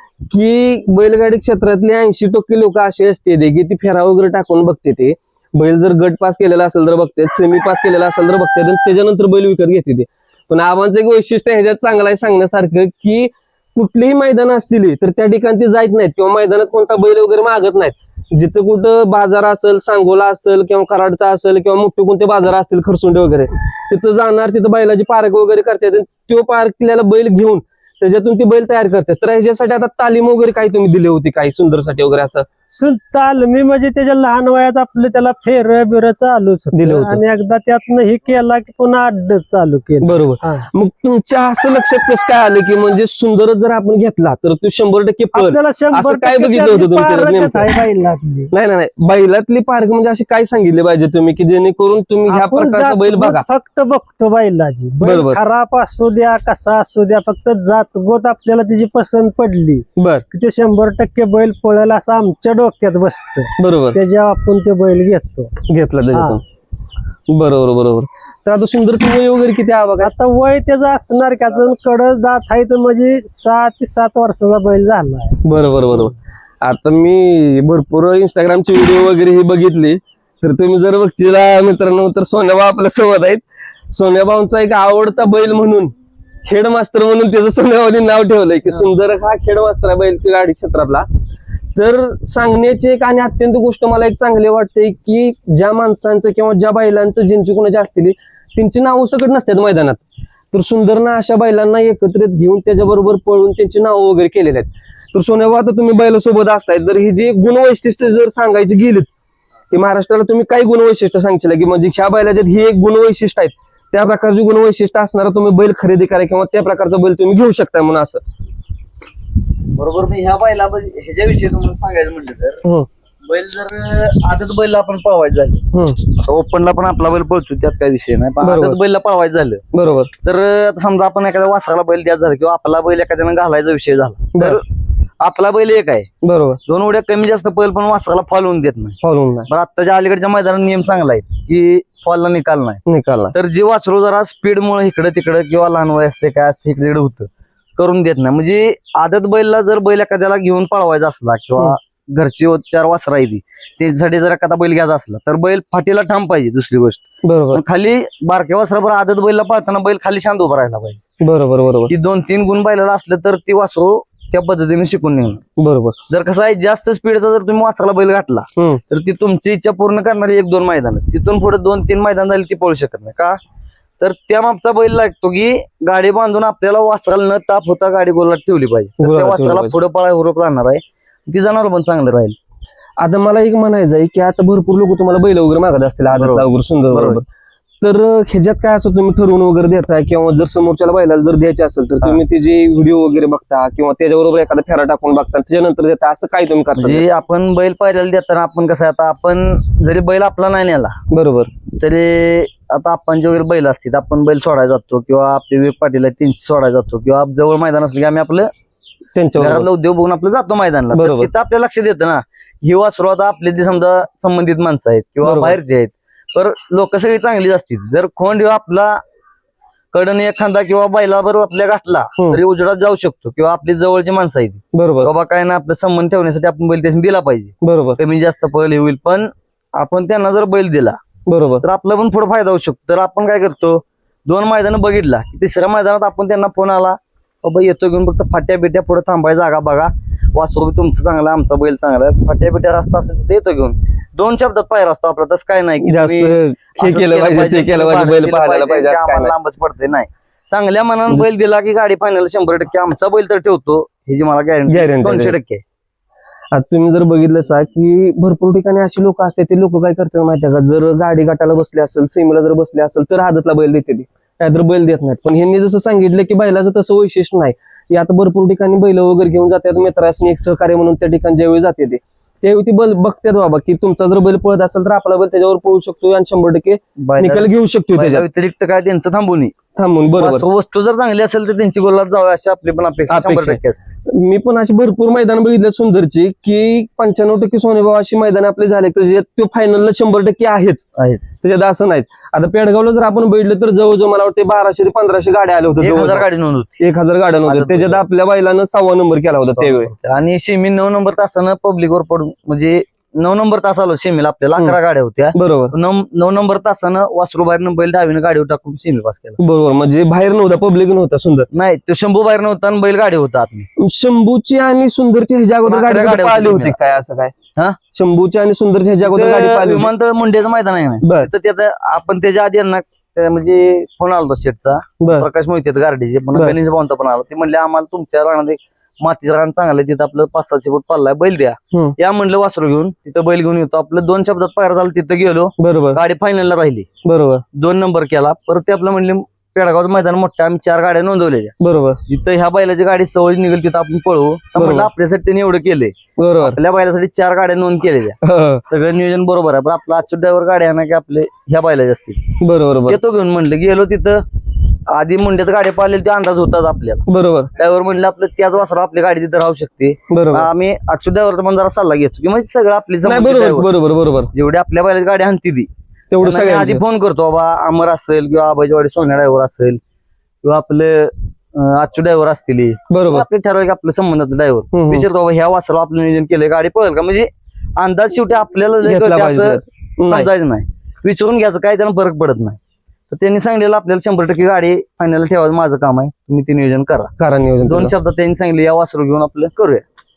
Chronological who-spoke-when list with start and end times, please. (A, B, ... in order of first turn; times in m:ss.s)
0:00.3-0:32.5 A
0:32.7-0:40.7 B
0:36.7-0:37.2 A
0:40.0-0:47.7 A
0:45.3-0:48.5 B
0:48.5-0:53.4 A
0:52.3-1:05.5 B
0:55.0-0:55.4 A
1:00.0-1:00.2 A
1:03.6-1:04.0 A
1:05.7-1:06.4 A
1:06.1-1:06.4 B
1:07.3-1:10.1 A
1:10.0-1:15.4 B
1:15.4-1:25.9 A
1:26.4-1:31.0 A
1:31.8-1:49.1 A
1:49.7-1:58.2 A
1:59.7-2:02.6 C
2:03.2-2:09.6 C
2:05.7-2:06.0 A
2:08.4-2:08.8 A
2:09.7-2:10.1 A
2:10.2-2:14.6 C
2:15.2-2:16.1 C
2:16.2-2:16.6 A
2:16.6-2:22.8 C
2:19.0-2:19.5 A
2:22.9-2:23.3 A
2:23.3-2:41.0 C
2:37.2-2:37.6 A
2:41.2-2:41.9 A
2:41.9-2:45.4 C
2:45.6-2:46.0 A
2:46.1-2:53.4 C
2:54.0-3:02.4 C
2:59.0-2:59.7 A
3:03.0-3:07.2 A
3:06.1-3:07.2 C
3:07.8-3:17.0 A
3:16.8-3:21.0 C
3:21.1-3:21.5 A
3:21.7-3:28.5 C
3:29.1-3:29.7 A
3:29.4-3:39.0 C
3:30.9-3:31.3 A
3:35.2-3:35.6 A
3:39.9-3:51.0 C
3:44.7-3:45.1 A
3:47.6-3:48.0 A
3:51.3-3:51.6 A
3:51.6-4:15.6 C
4:05.8-4:09.3 A
4:14.7-4:15.3 A
4:16.5-4:38.2 A
4:37.0-4:39.5 C
4:39.8-4:40.4 A
4:40.2-4:43.9 C
4:43.1-4:50.9 A
4:51.0-4:51.2 C
4:51.4-4:56.3 A
4:55.8-4:56.8 C
4:56.8-4:59.9 A
4:57.4-4:58.0 C
4:59.6-5:09.4 C
5:05.3-5:05.7 A
5:09.4-5:11.5 A
5:11.5-5:13.7 C
5:13.8-5:17.3 A
5:15.6-5:16.8 C
5:17.9-5:19.9 A
5:19.0-5:36.9 C
5:21.0-5:21.3 A
5:25.0-5:25.3 A
5:35.6-5:36.0 A
5:37.0-5:37.4 A
5:37.5-5:41.5 C
5:41.6-5:42.0 A
5:42.1-5:52.3 C
5:44.6-5:44.9 A
5:46.2-5:46.6 A
5:48.2-5:48.6 A
5:52.4-5:53.0 A
5:52.9-5:54.2 C
5:54.9-5:57.0 C
5:57.1-5:57.5 A
5:57.6-6:03.7 C
6:00.1-6:00.5 A
6:03.0-6:04.3 A
6:04.3-6:05.7 C
6:06.1-6:06.8 A
6:06.2-6:09.8 C
6:10.4-6:22.6 C
6:12.9-6:13.2 A
6:14.7-6:15.0 A
6:18.8-6:20.3 A
6:23.1-6:27.1 C
6:27.2-6:27.9 A
6:27.6-6:29.8 C